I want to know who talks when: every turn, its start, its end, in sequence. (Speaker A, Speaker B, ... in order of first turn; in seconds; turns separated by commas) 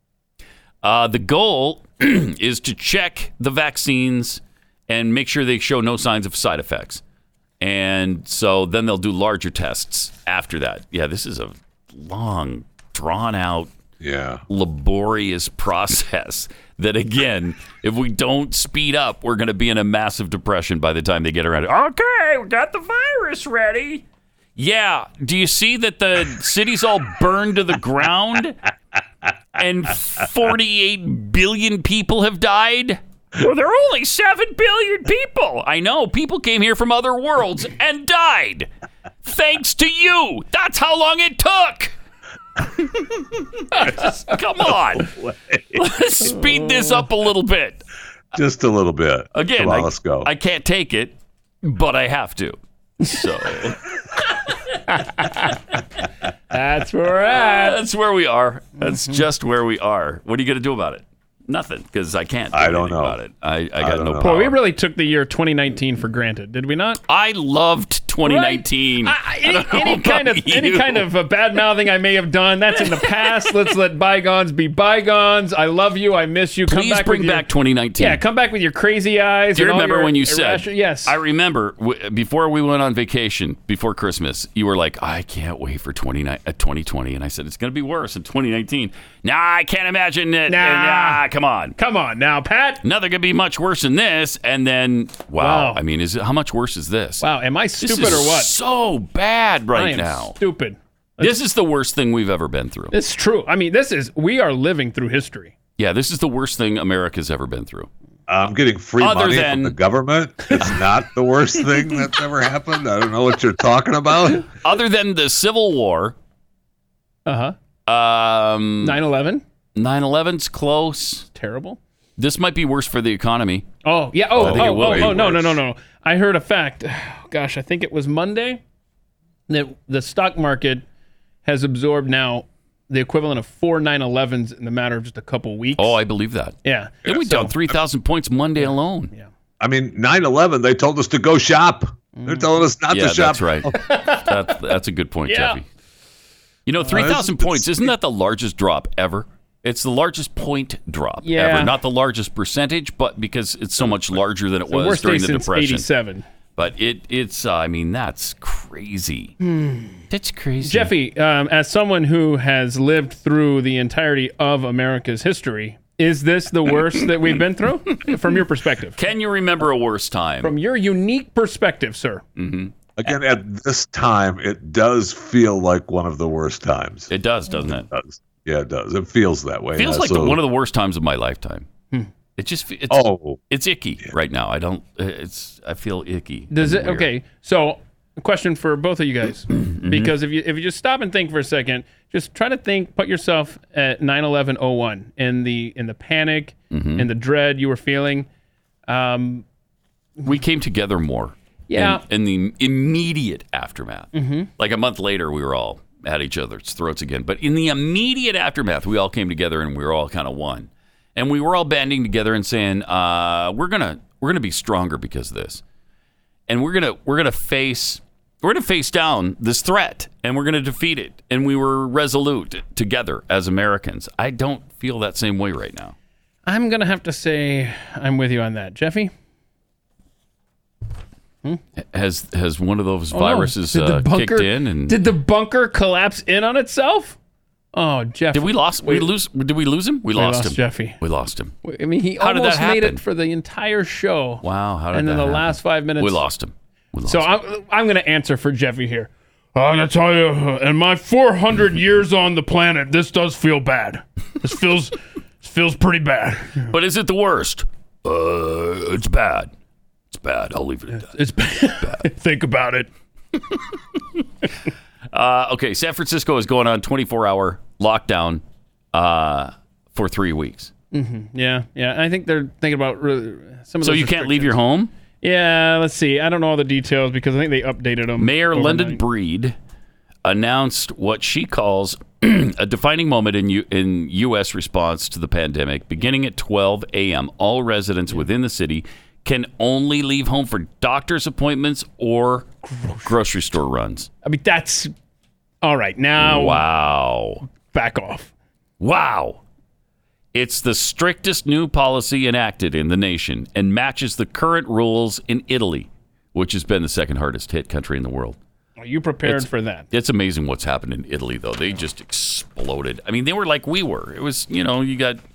Speaker A: 0.8-7.0, Speaker A: 7.6-13.7, Speaker B: 14.0-14.4, Speaker A: 14.5-24.0, Speaker A: 24.6-28.6, Speaker A: 29.6-38.7, Speaker A: 39.2-41.9, Speaker A: 43.0-45.1, Speaker B: 45.0-45.8, Speaker A: 45.7-47.8, Speaker B: 48.3-50.3, Speaker A: 49.3-53.8, Speaker C: 54.9-55.5, Speaker C: 56.5-57.8, Speaker A: 57.3-64.5, Speaker C: 58.8-59.2, Speaker B: 62.5-63.2, Speaker B: 63.8-64.4, Speaker C: 64.2-67.0, Speaker A: 67.1-71.1, Speaker C: 68.2-77.5, Speaker A: 73.0-73.3, Speaker A: 76.7-78.2, Speaker C: 78.0-81.2, Speaker A: 79.5-91.8, Speaker C: 90.5-91.2, Speaker C: 91.8-92.8, Speaker A: 92.8-97.2, Speaker C: 95.4-95.8, Speaker C: 97.2-98.5, Speaker A: 97.8-100.4, Speaker C: 99.7-101.3, Speaker A: 101.2-102.9, Speaker C: 102.9-105.5, Speaker A: 105.8-107.9, Speaker B: 108.3-114.5, Speaker A: 109.0-109.8, Speaker A: 114.6-116.1, Speaker C: 117.2-117.5, Speaker A: 117.9-119.0, Speaker C: 118.8-119.4, Speaker A: 119.7-121.3, Speaker C: 121.3-121.8, Speaker A: 122.2-123.7, Speaker C: 123.8-128.6, Speaker A: 124.3-125.3, Speaker B: 124.3-125.6, Speaker C: 129.5-130.8, Speaker C: 131.4-136.0, Speaker A: 135.8-139.1, Speaker C: 136.6-137.5, Speaker C: 138.6-139.3, Speaker B: 139.6-143.8, Speaker C: 142.2-142.5, Speaker A: 142.9-145.7, Speaker C: 143.7-144.3, Speaker C: 145.3-145.6, Speaker A: 146.7-155.9, Speaker C: 146.8-147.2, Speaker B: 146.9-147.9, Speaker C: 151.2-151.8, Speaker C: 154.7-156.2, Speaker A: 156.6-159.4, Speaker C: 159.4-160.0, Speaker A: 160.1-160.9, Speaker C: 160.6-169.0, Speaker A: 168.9-170.5, Speaker C: 170.4-172.2, Speaker A: 172.4-172.7, Speaker B: 173.0-177.1, Speaker A: 177.1-177.9, Speaker B: 177.6-180.4, Speaker A: 179.8-181.7, Speaker A: 182.4-187.1, Speaker B: 182.9-183.4, Speaker C: 186.5-198.3, Speaker A: 189.5-190.1, Speaker A: 196.7-197.1, Speaker C: 198.9-199.4, Speaker A: 200.2-215.6, Speaker C: 201.7-202.0, Speaker C: 204.1-204.5, Speaker A: 216.5-225.9, Speaker C: 226.4-229.1, Speaker A: 231.9-235.0, Speaker C: 233.1-237.2, Speaker C: 237.7-239.1, Speaker A: 238.3-241.5, Speaker C: 240.1-241.0, Speaker C: 241.6-246.2, Speaker A: 242.2-243.0, Speaker A: 244.4-247.3, Speaker C: 247.1-256.7, Speaker A: 256.7-259.5, Speaker A: 260.1-262.0, Speaker C: 261.0-262.9, Speaker A: 263.9-264.2, Speaker A: 265.1-268.4, Speaker A: 268.9-270.7, Speaker C: 270.9-274.6, Speaker A: 273.8-274.9, Speaker C: 275.2-279.0, Speaker A: 278.2-279.5, Speaker A: 280.2-294.1, Speaker C: 292.6-293.1, Speaker C: 294.2-294.9, Speaker C: 295.6-296.6, Speaker A: 296.2-297.4, Speaker C: 297.7-298.3, Speaker A: 298.8-299.4, Speaker A: 300.3-308.4, Speaker C: 308.8-309.9, Speaker A: 309.2-315.2